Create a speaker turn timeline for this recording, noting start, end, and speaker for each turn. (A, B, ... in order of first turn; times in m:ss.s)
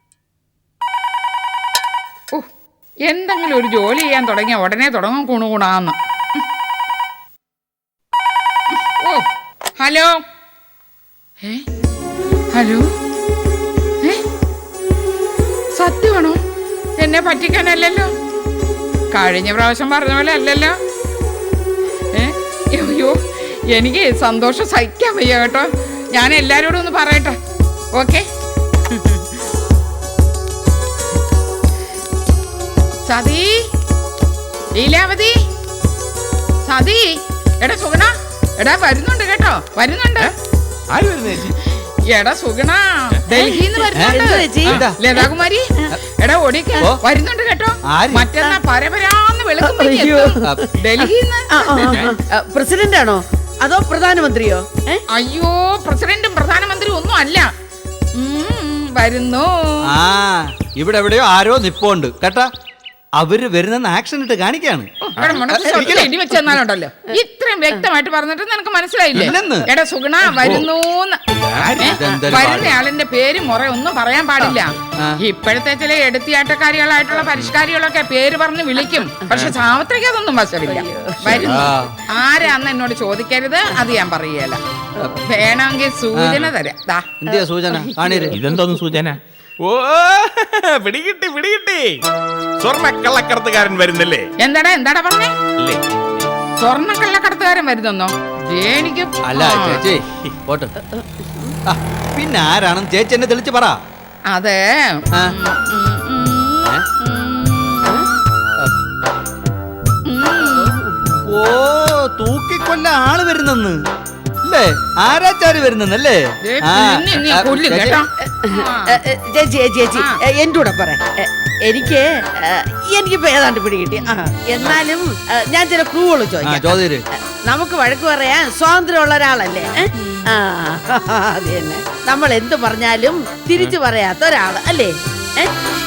0:03.0-0:06.0 A
0:08.8-0:09.2 A
0:09.8-0:10.2 A
0:12.5-0:12.9 A
0:15.7-0:16.4 A
0:17.0-0:18.1 A
0:19.1-0:20.8 A
0:22.1-0:23.2 A
0:23.7-0:27.4 A
0:27.9-0:28.2 A
0:28.9-0:29.3 A
0:33.0-0:33.6 A
0:34.7-0:35.4 A
0:36.6-0:40.3 A
0:40.9-0:41.6 B
0:42.1-0:52.0 A
0:43.4-0:45.2 C
0:43.9-0:45.0 D
0:47.9-0:48.3 D
0:49.6-0:55.0 C
0:55.1-0:57.5 A
0:58.1-0:59.8 A
0:59.9-1:02.5 D
1:03.2-1:06.1 D
1:05.1-1:11.2 A
1:05.5-1:06.3 C
1:09.1-1:09.7 D
1:11.5-1:11.9 B
1:11.8-1:12.8 D
1:11.8-1:24.6 A
1:20.7-1:21.3 C
1:21.3-1:22.0 D
1:25.2-1:27.1 A
1:26.1-1:26.5 D
1:27.2-1:28.4 D
1:27.3-1:28.6 C
1:28.3-1:32.0 B
1:32.6-1:34.3 B
1:34.4-1:35.3 A
1:36.6-1:39.9 A
1:39.2-1:40.7 D
1:40.8-1:41.6 C
1:41.7-1:43.8 D
1:44.3-1:48.2 A
1:50.1-1:50.7 A
1:50.6-1:51.2 C
1:51.2-1:53.8 D
1:54.4-1:58.0 D
1:56.4-1:59.0 A
1:58.2-2:06.8 C
2:06.4-2:07.0 D
2:07.4-2:15.5 C
2:10.0-2:10.3 A